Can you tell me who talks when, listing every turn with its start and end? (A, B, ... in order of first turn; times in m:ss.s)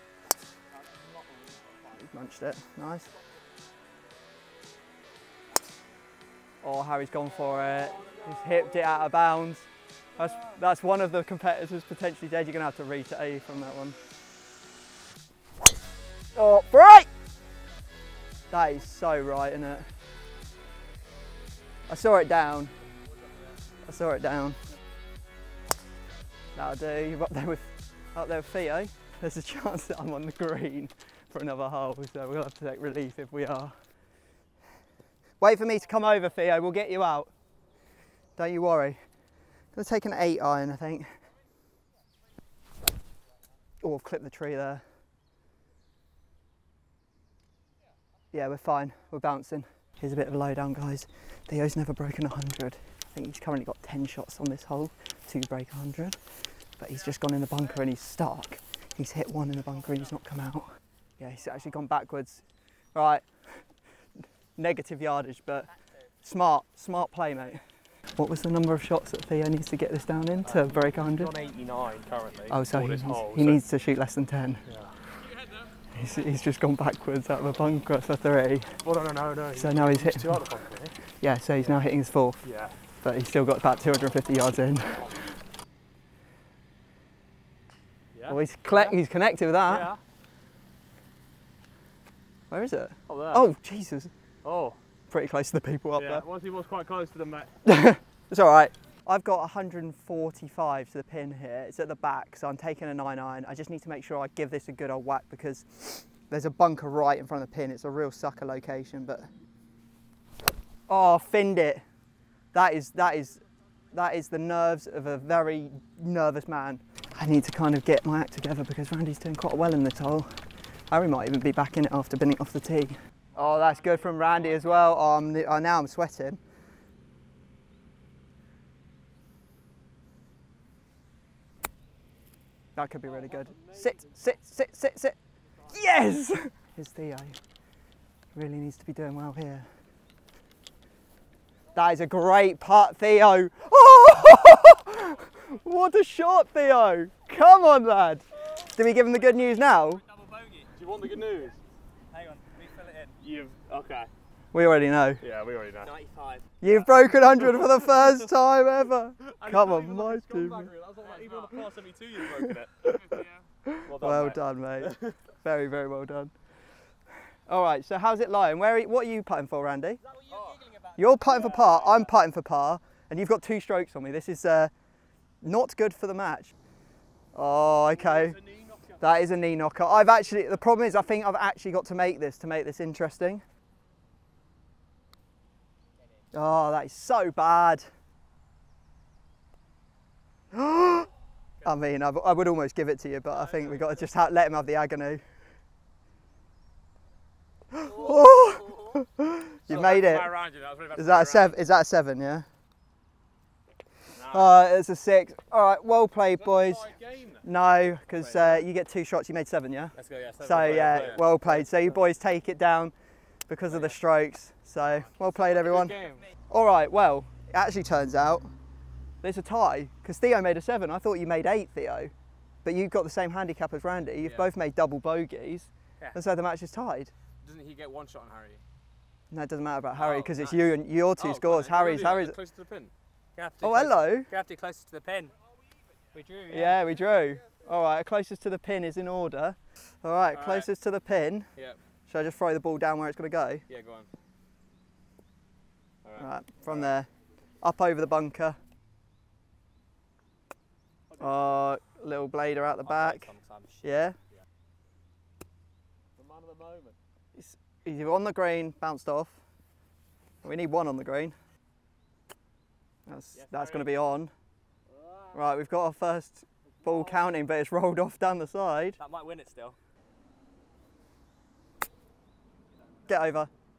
0:01.9-0:03.1 A
0:06.6-0:14.0 A
0:16.4-0:17.1 A
0:18.5-0:19.9 A
0:21.9-0:22.8 A
0:23.9-0:24.6 A
0:26.6-0:33.8 A
0:35.4-0:37.3 A
0:38.4-0:39.0 A
0:39.7-0:41.1 A
0:43.8-0:44.8 A
0:48.3-0:56.2 A
0:56.8-1:03.6 A
1:04.6-1:05.7 A
1:05.7-1:06.0 B
1:06.2-1:07.6 A
1:08.2-1:11.4 A
1:11.0-1:12.5 C
1:11.2-1:13.6 D
1:12.5-1:14.6 A
1:14.7-1:14.9 D
1:15.9-1:18.8 A
1:18.8-1:20.9 D
1:19.5-1:20.5 A
1:21.2-1:22.5 A
1:22.4-1:22.7 D
1:23.0-1:25.4 A
1:28.2-1:28.9 D
1:28.3-1:29.9 A
1:29.7-1:30.0 D
1:32.5-1:34.1 A
1:33.1-1:33.4 D
1:34.4-1:34.8 D
1:35.1-1:36.2 A
1:36.0-1:37.5 D
1:37.6-1:49.3 A
1:50.9-1:51.8 A
1:52.5-2:06.4 A
2:12.8-2:17.4 A
2:13.1-2:14.2 C
2:15.5-2:15.8 C
2:18.4-2:19.7 A
2:21.7-2:30.0 A
2:29.2-2:30.7 B
2:30.8-2:31.6 C
2:32.1-2:33.2 B
2:33.2-2:34.1 D
2:34.5-2:35.2 A
2:35.2-2:35.9 D
2:35.8-2:36.5 B
2:36.6-2:40.7 A
2:39.4-2:42.7 C
2:41.1-2:41.6 D
2:42.3-2:46.3 A
2:42.8-2:44.3 D
2:43.9-2:45.2 C
2:47.5-2:50.0 A
2:50.0-2:51.8 B
2:50.3-2:50.6 C
2:51.0-2:54.7 A
2:51.4-2:51.8 C
2:55.4-2:56.6 A
2:57.3-2:58.4 A
2:57.9-2:59.0 C
2:59.0-3:03.4 A
3:06.3-3:07.9 A
3:10.5-3:11.1 A
3:11.6-3:15.2 A
3:17.7-3:20.3 A
3:19.7-3:21.6 D
3:20.9-3:22.5 A
3:24.2-3:24.5 D
3:24.2-3:32.9 A
3:26.4-3:27.5 C
3:28.2-3:28.6 D
3:30.0-3:31.6 D
3:31.0-3:31.2 C
3:33.5-3:36.0 A
3:33.7-3:34.0 D
3:35.5-3:36.3 D
3:36.5-3:38.5 A
3:39.2-3:42.1 A
3:42.6-3:47.1 A
3:44.2-3:44.5 D
3:47.4-3:48.6 D
3:49.3-3:52.4 A
3:49.9-3:50.6 D
3:51.2-3:52.9 D
3:53.4-3:55.4 B
3:53.6-3:54.3 A
3:56.1-3:56.8 B
3:56.5-4:01.5 A
4:00.3-4:00.7 D
4:02.1-4:03.6 A
4:03.7-4:04.1 D
4:06.0-4:06.9 D
4:06.2-4:07.1 A
4:07.6-4:08.6 A
4:11.2-4:13.3 A
4:13.0-4:13.9 B
4:13.8-4:14.2 A
4:16.2-4:17.0 C
4:17.4-4:19.4 A
4:20.4-4:21.4 A
4:23.1-4:24.3 A
4:24.9-4:25.5 C
4:25.3-4:29.0 A
4:26.8-4:27.2 C
4:29.0-4:29.8 B
4:33.1-4:33.5 A